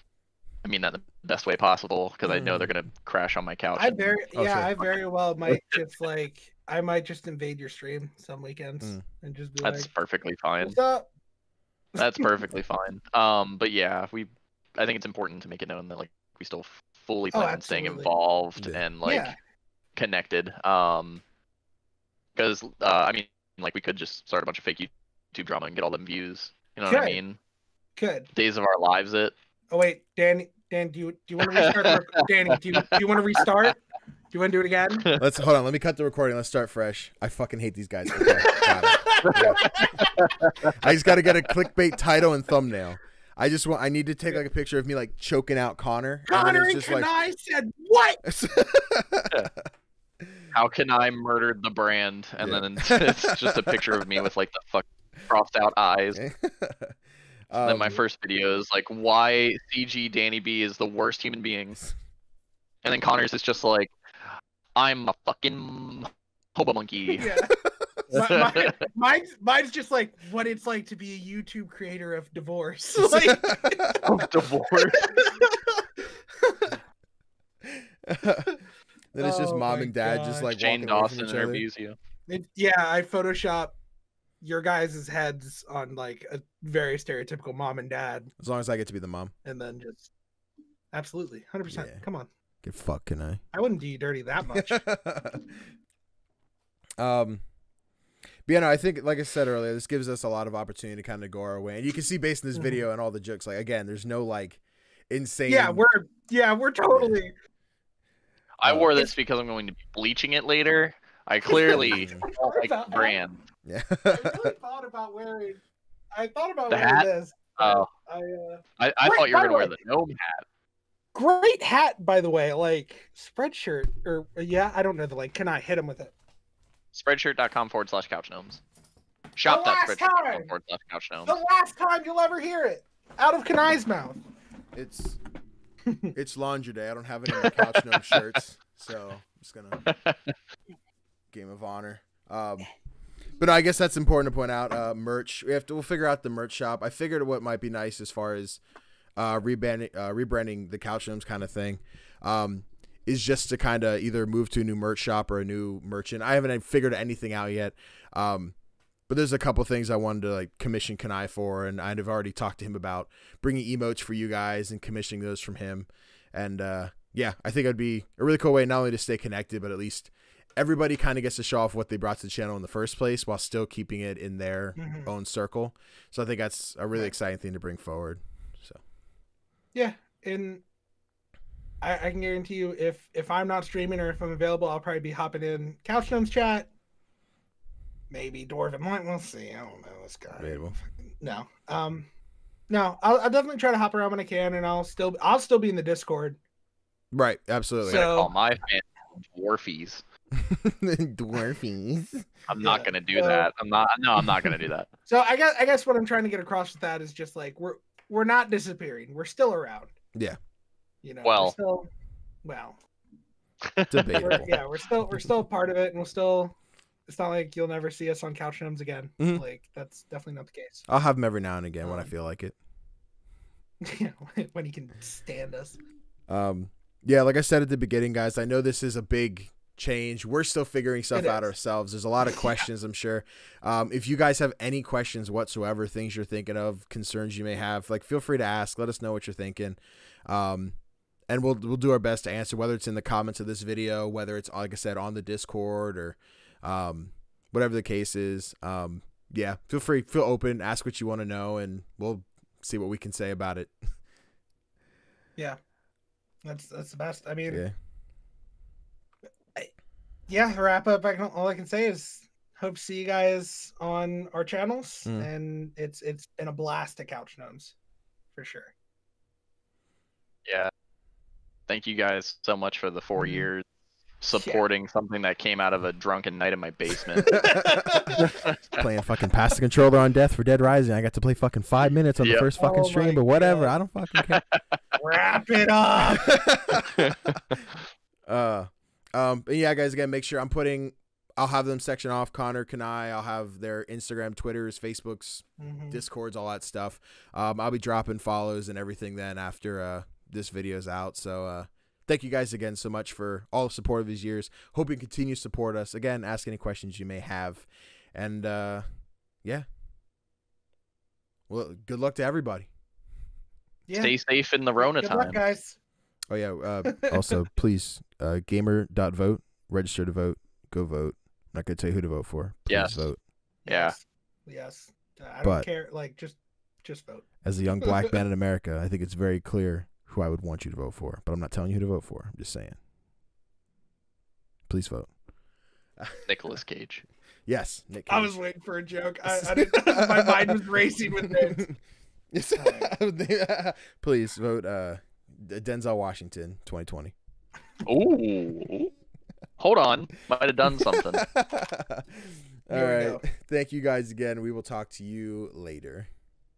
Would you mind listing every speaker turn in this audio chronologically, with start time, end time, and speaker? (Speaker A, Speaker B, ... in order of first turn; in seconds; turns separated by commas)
Speaker A: 0.6-4.1, Speaker B: 2.3-2.7, Speaker C: 3.8-9.9, Speaker B: 4.3-4.7, Speaker A: 9.6-10.8, Speaker C: 10.6-11.1, Speaker C: 12.0-12.3, Speaker A: 12.0-19.3, Speaker C: 17.3-18.2, Speaker B: 18.6-18.8, Speaker C: 19.0-19.4, Speaker A: 19.9-21.2, Speaker A: 22.4-27.4, Speaker C: 26.9-27.2, Speaker C: 28.0-28.3, Speaker A: 28.4-29.4, Speaker C: 29.7-35.1, Speaker A: 31.4-33.0, Speaker B: 35.2-40.1, Speaker C: 38.2-40.1, Speaker A: 39.4-40.7, Speaker B: 40.7-47.1, Speaker C: 46.3-48.2, Speaker B: 48.2-49.3, Speaker A: 50.5-56.2, Speaker B: 52.4-53.4, Speaker B: 56.2-57.0, Speaker B: 57.5-58.0, Speaker A: 57.6-61.8, Speaker A: 62.8-63.9, Speaker A: 64.8-67.3, Speaker C: 67.2-67.6, Speaker A: 68.1-68.7, Speaker C: 68.1-74.0, Speaker B: 73.0-74.0, Speaker A: 74.0-75.1, Speaker C: 75.0-75.9, Speaker C: 76.4-76.8, Speaker B: 77.7-78.6, Speaker B: 79.1-81.7, Speaker C: 79.2-80.5, Speaker A: 80.5-82.0, Speaker C: 82.3-83.8, Speaker C: 84.4-88.3, Speaker B: 88.4-89.3, Speaker C: 89.5-90.1, Speaker C: 90.9-92.3, Speaker B: 91.7-92.0, Speaker B: 92.6-93.4, Speaker C: 93.5-94.8, Speaker B: 94.5-95.6, Speaker B: 97.0-97.4, Speaker B: 98.5-105.8, Speaker C: 102.5-102.8, Speaker C: 105.5-107.3, Speaker B: 106.9-107.2, Speaker A: 108.6-113.4, Speaker B: 108.7-108.9, Speaker C: 111.5-113.2, Speaker B: 111.7-112.2, Speaker B: 113.7-114.5, Speaker C: 114.1-115.6, Speaker C: 116.1-119.8, Speaker A: 116.7-117.9, Speaker A: 118.8-120.5, Speaker C: 121.2-126.1, Speaker A: 126.9-128.6, Speaker A: 129.4-131.4, Speaker C: 129.5-130.5, Speaker C: 131.3-134.2, Speaker B: 134.7-135.2, Speaker B: 136.1-139.8, Speaker A: 139.9-140.3, Speaker B: 141.3-142.7, Speaker B: 143.4-148.6, Speaker B: 149.2-158.6, Speaker B: 159.1-178.8, Speaker C: 174.8-175.1, Speaker C: 179.7-180.6, Speaker C: 181.8-186.7, Speaker C: 188.1-192.1, Speaker B: 190.4-190.8, Speaker C: 192.7-196.4, Speaker B: 197.1-198.1, Speaker C: 197.8-198.3, Speaker A: 198.1-200.0, Speaker B: 200.4-202.3, Speaker A: 202.5-204.9, Speaker C: 202.6-203.5, Speaker C: 205.1-209.9, Speaker C: 211.0-211.9, Speaker A: 211.2-211.6, Speaker C: 212.4-212.8, Speaker A: 213.7-214.5, Speaker B: 213.9-214.6, Speaker C: 214.2-216.6, Speaker C: 217.1-220.9, Speaker B: 220.9-222.6, Speaker C: 221.8-222.1, Speaker C: 223.8-225.8, Speaker B: 226.3-240.8, Speaker C: 231.1-231.5, Speaker B: 241.3-253.8, Speaker C: 256.4-257.6, Speaker B: 257.5-257.7, Speaker C: 260.3-267.8, Speaker C: 268.4-268.7, Speaker A: 271.7-273.6, Speaker C: 273.2-273.5, Speaker A: 274.2-277.4, Speaker C: 274.3-274.6, Speaker C: 277.3-278.2, Speaker A: 278.2-278.6, Speaker B: 278.8-284.4, Speaker A: 282.2-282.5, Speaker C: 282.6-283.8, Speaker A: 284.3-284.6, Speaker C: 285.0-286.4, Speaker B: 286.3-286.8, Speaker A: 287.0-287.8, Speaker B: 288.3-308.9, Speaker C: 295.6-296.0, Speaker B: 311.5-312.7, Speaker C: 313.9-314.2, Speaker A: 313.9-315.4, Speaker C: 314.8-315.8, Speaker B: 316.3-323.2, Speaker A: 322.7-323.1, Speaker C: 323.6-327.3, Speaker A: 323.7-323.9, Speaker B: 325.4-325.7, Speaker B: 327.4-332.8, Speaker B: 334.7-335.1, Speaker A: 336.2-337.0, Speaker B: 337.5-338.4, Speaker C: 338.1-341.6, Speaker B: 339.2-340.7, Speaker B: 341.4-341.8, Speaker B: 342.3-347.1, Speaker C: 342.6-342.9, Speaker A: 347.9-348.9, Speaker A: 349.6-351.2, Speaker B: 350.9-356.1, Speaker C: 352.7-353.2